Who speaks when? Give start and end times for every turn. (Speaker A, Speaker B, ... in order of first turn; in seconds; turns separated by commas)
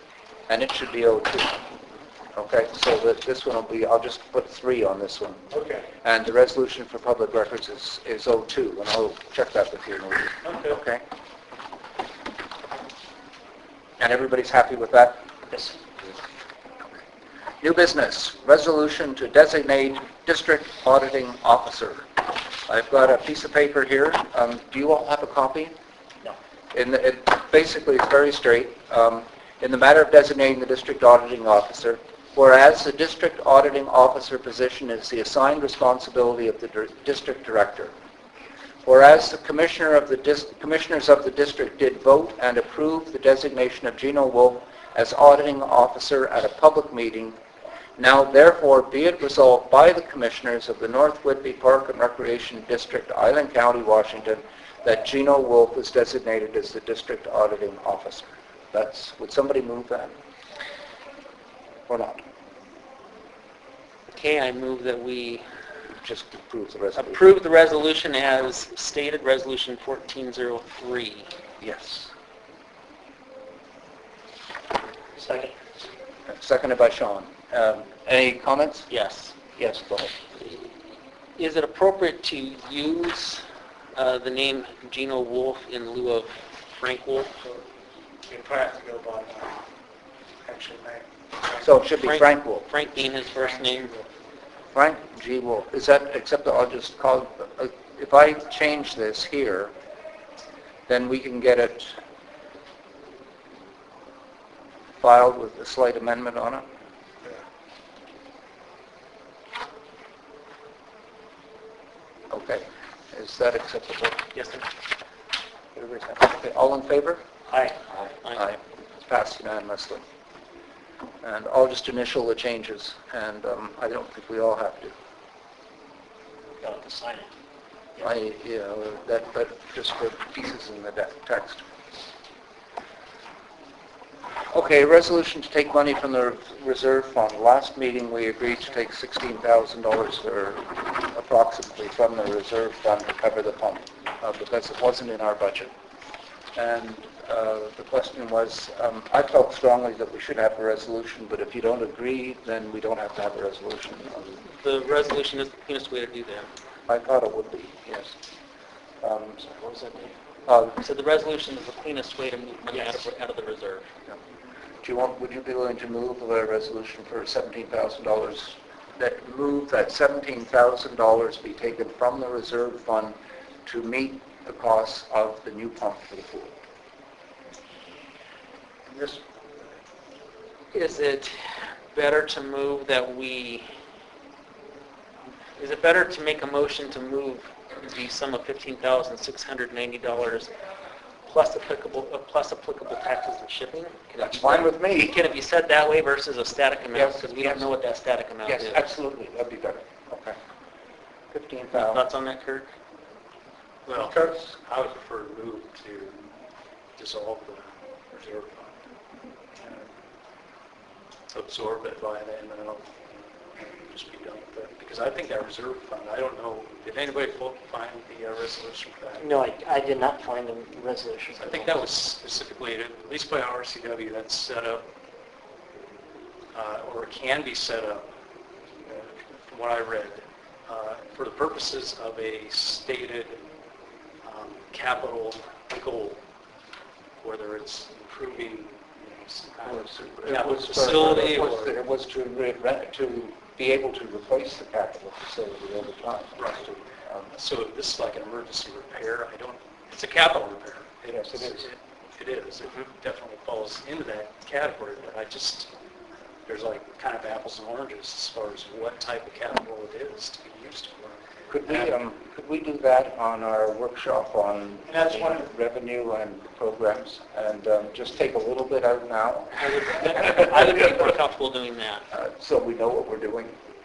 Speaker A: 0.5-1.5, Speaker A: 2.3-5.4, Speaker B: 5.5-5.9, Speaker A: 6.0-11.0, Speaker B: 10.4-10.8, Speaker A: 14.0-15.2, Speaker A: 17.6-25.7, Speaker A: 26.7-37.9, Speaker A: 38.8-47.4, Speaker A: 48.0-60.1, Speaker A: 61.9-62.2, Speaker C: 64.1-65.4, Speaker A: 66.0-67.2, Speaker C: 67.0-71.3, Speaker A: 71.6-72.1, Speaker D: 75.2-75.5, Speaker A: 76.3-78.9, Speaker C: 78.9-79.3, Speaker A: 79.5-80.2, Speaker C: 81.4-83.4, Speaker C: 84.0-87.3, Speaker B: 88.3-89.6, Speaker B: 90.5-91.6, Speaker A: 91.6-92.7, Speaker C: 92.0-93.9, Speaker B: 93.3-94.0, Speaker A: 94.7-99.7, Speaker A: 100.9-102.0, Speaker A: 105.0-106.6, Speaker A: 112.3-114.2, Speaker A: 115.8-117.2, Speaker A: 118.3-120.0, Speaker A: 121.2-124.9, Speaker D: 126.6-127.3, Speaker A: 128.0-131.6, Speaker A: 134.5-145.7, Speaker A: 146.5-154.3, Speaker C: 154.5-156.5, Speaker A: 156.9-158.1, Speaker A: 159.0-159.4, Speaker D: 159.4-160.1, Speaker A: 160.5-160.8, Speaker C: 160.8-163.8, Speaker D: 162.7-163.0, Speaker A: 164.8-176.5, Speaker B: 178.9-179.2, Speaker C: 180.7-183.6, Speaker C: 185.6-190.5, Speaker C: 191.3-198.8, Speaker A: 194.2-195.2, Speaker A: 196.9-197.7, Speaker A: 198.5-200.4, Speaker A: 201.3-202.0, Speaker C: 201.7-202.7, Speaker B: 203.9-206.2, Speaker A: 204.0-204.5, Speaker B: 207.0-208.8, Speaker B: 209.6-209.8, Speaker B: 211.3-219.2, Speaker D: 219.2-221.8, Speaker B: 221.3-224.8, Speaker B: 226.5-228.1, Speaker B: 228.8-233.4, Speaker B: 234.2-236.2, Speaker B: 237.2-241.7, Speaker A: 239.6-247.3, Speaker C: 241.1-241.4, Speaker B: 246.4-246.7, Speaker B: 247.3-255.7, Speaker A: 251.1-251.6, Speaker B: 256.5-261.2, Speaker A: 261.5-270.5, Speaker C: 269.6-272.0, Speaker A: 272.1-273.6